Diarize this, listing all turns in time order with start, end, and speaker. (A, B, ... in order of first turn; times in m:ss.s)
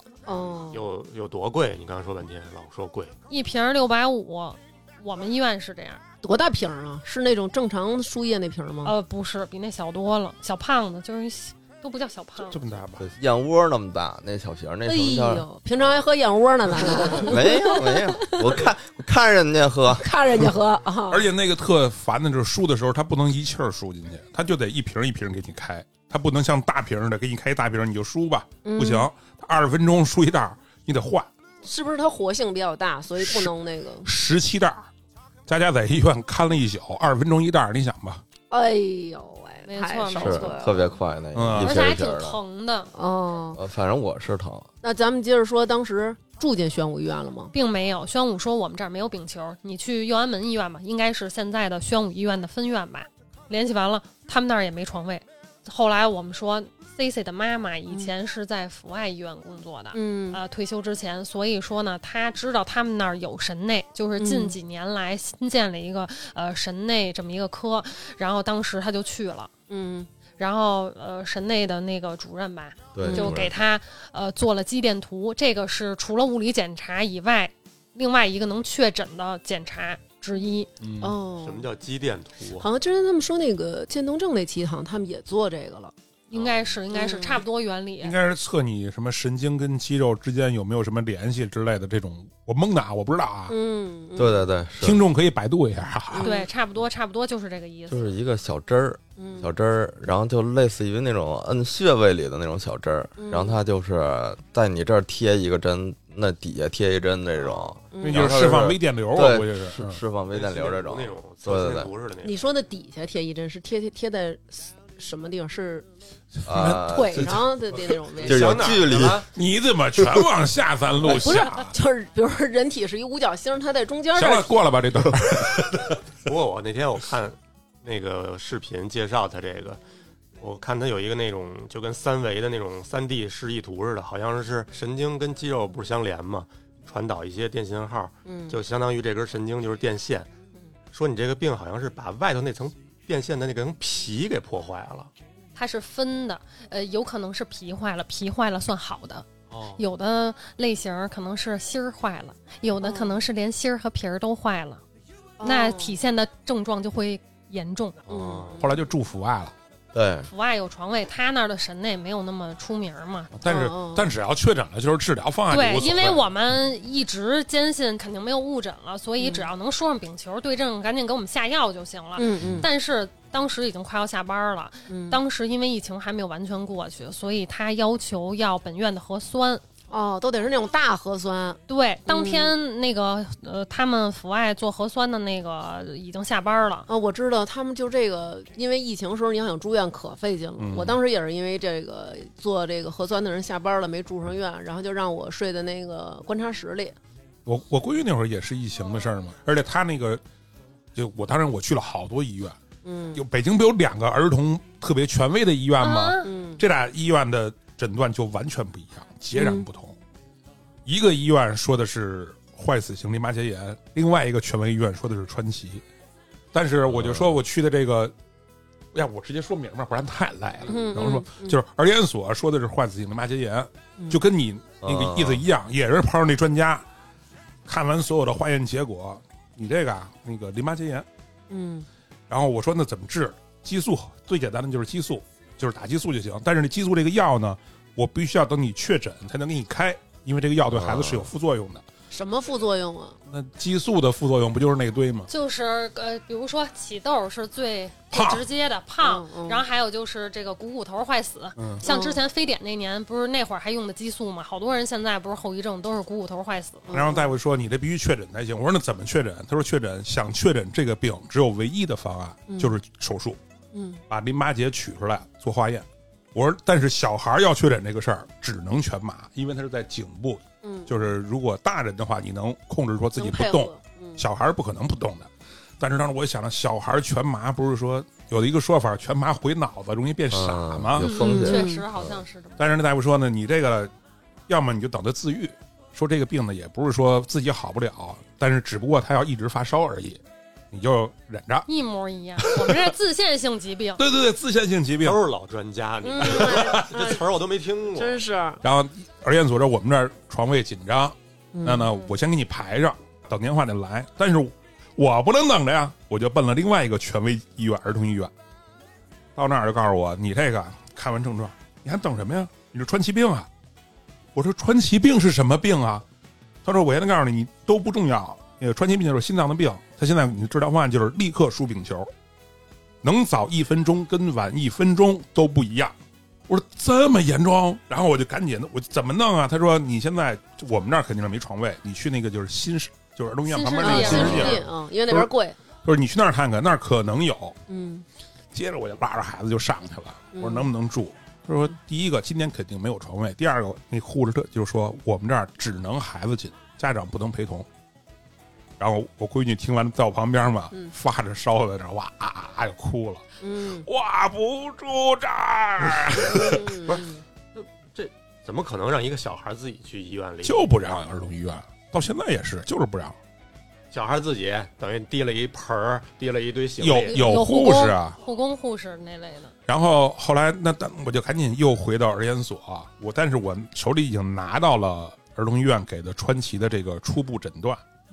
0:00.3-0:00.8 A
0:00.7-0:03.2 B
0:03.3-0:06.0 C
0:06.2-0:08.9 A
0:08.8-0:12.6 C
0:12.5-0:13.1 D
0:13.0-0:15.5 E
0:14.8-0:18.7 A
0:17.2-0:20.1 E
0:20.0-0:21.3 A
0:21.1-0:31.3 D
0:28.6-0:29.1 A
0:31.6-0:34.1 A
0:33.2-0:33.5 D
0:34.0-0:34.9 D
0:35.5-0:38.2 D
0:38.5-0:41.0 A
0:39.7-0:40.7 C
0:40.2-0:42.4 E
0:41.3-0:41.8 D
0:41.5-0:42.9 C
0:42.9-0:43.6 A
0:43.5-0:44.7 E
0:44.8-0:47.5 A
0:47.5-1:09.5 C
0:59.9-1:00.4 A
1:04.2-1:04.6 A
1:09.7-1:10.1 A
1:10.4-1:20.7 C
1:12.9-1:13.6 E
1:13.0-1:13.4 A
1:20.8-1:21.2 D
1:21.0-1:21.7 A
1:21.4-1:22.7 B
1:22.6-1:25.9 A
1:26.3-1:28.2 C
1:26.3-1:26.6 B
1:26.9-1:27.4 A
1:28.0-1:33.6 D
1:33.5-1:34.5 A
1:34.2-1:35.0 E
1:34.8-1:36.3 D
1:36.1-1:36.4 A
1:36.2-1:38.1 C
1:37.9-1:51.9 E
1:39.2-1:39.5 A
1:43.2-1:43.6 A
1:47.9-1:48.4 A
1:48.0-1:50.0 D
1:50.3-1:52.5 B
1:52.2-1:55.9 A
1:56.4-1:57.4 D
1:56.5-1:57.4 E
1:56.8-1:58.9 A
1:58.2-1:59.3 B
1:58.2-1:59.2 E
1:59.3-2:01.7 D
2:01.0-2:04.7 A
2:01.0-2:01.4 E
2:04.1-2:06.0 D
2:06.3-2:09.8 B
2:10.4-2:20.3 B
2:18.3-2:18.6 A
2:20.9-2:25.1 B
2:25.6-2:29.3 C
2:29.5-2:29.8 B
2:29.8-2:34.8 C
2:32.8-2:33.3 A
2:35.4-2:36.0 A
2:35.4-2:38.0 C
2:38.1-2:38.7 B
2:38.1-2:38.8 A
2:38.6-2:39.5 D
2:39.9-2:40.3 E
2:40.3-2:43.3 C
2:43.3-2:46.3 D
2:43.5-2:44.1 A
2:45.5-2:59.6 C
2:49.2-2:49.5 A
2:52.2-2:52.7 A
2:54.9-2:55.2 A
2:59.9-3:02.5 A
3:01.7-3:06.9 C
3:06.9-3:17.0 A
3:10.6-3:11.0 D
3:17.5-3:20.2 D
3:21.0-3:22.6 D
3:22.8-3:23.2 A
3:23.2-3:30.0 D
3:25.8-3:26.3 C
3:26.2-3:26.6 A
3:29.3-3:29.7 A
3:30.8-3:35.8 D
3:36.5-3:38.1 D
3:36.9-3:37.4 E
3:38.9-3:46.8 D
3:40.7-3:41.6 A
3:44.8-3:45.4 E
3:47.7-3:51.1 D
3:51.5-3:51.9 A
3:52.3-4:01.8 D
4:00.7-4:01.3 E
4:02.1-4:03.2 A
4:03.3-4:05.3 D
4:05.3-4:16.9 C
4:08.1-4:08.4 D
4:09.0-4:09.6 A
4:11.6-4:11.8 D
4:11.8-4:12.2 A
4:16.9-4:17.4 A
4:16.9-4:23.4 D
4:22.5-4:22.8 A
4:23.7-4:24.0 A
4:24.1-4:41.2 D
4:30.6-4:31.0 A
4:33.2-4:34.2 A
4:40.3-4:41.8 E
4:41.0-4:42.7 C
4:41.2-4:41.8 A
4:42.6-4:43.9 D
4:44.5-4:50.2 D
4:50.7-4:51.7 D
4:51.7-4:54.0 C
4:52.4-4:52.9 D
4:54.0-4:55.2 D
4:55.0-4:58.2 B
4:56.0-4:57.2 A
4:56.2-4:56.9 D
4:58.0-4:58.6 A
4:58.6-5:08.3 D
5:01.5-5:02.0 A
5:09.4-5:13.5 D
5:14.4-5:16.0 D
5:16.6-5:22.1 D
5:23.0-5:25.9 D
5:26.5-5:35.3 D
5:33.5-5:34.6 C
5:33.8-5:35.6 A
5:35.8-5:37.6 D
5:37.7-5:38.1 A
5:38.5-5:47.7 D
5:40.4-5:40.7 A
5:48.8-5:53.2 D
5:53.4-5:53.9 A
5:53.8-5:56.8 D
5:56.2-5:57.2 A
5:56.9-6:00.7 B
6:00.4-6:03.2 D
6:03.9-6:07.2 B
6:06.8-6:08.2 D
6:07.1-6:07.8 A
6:07.1-6:09.5 C
6:09.7-6:17.8 D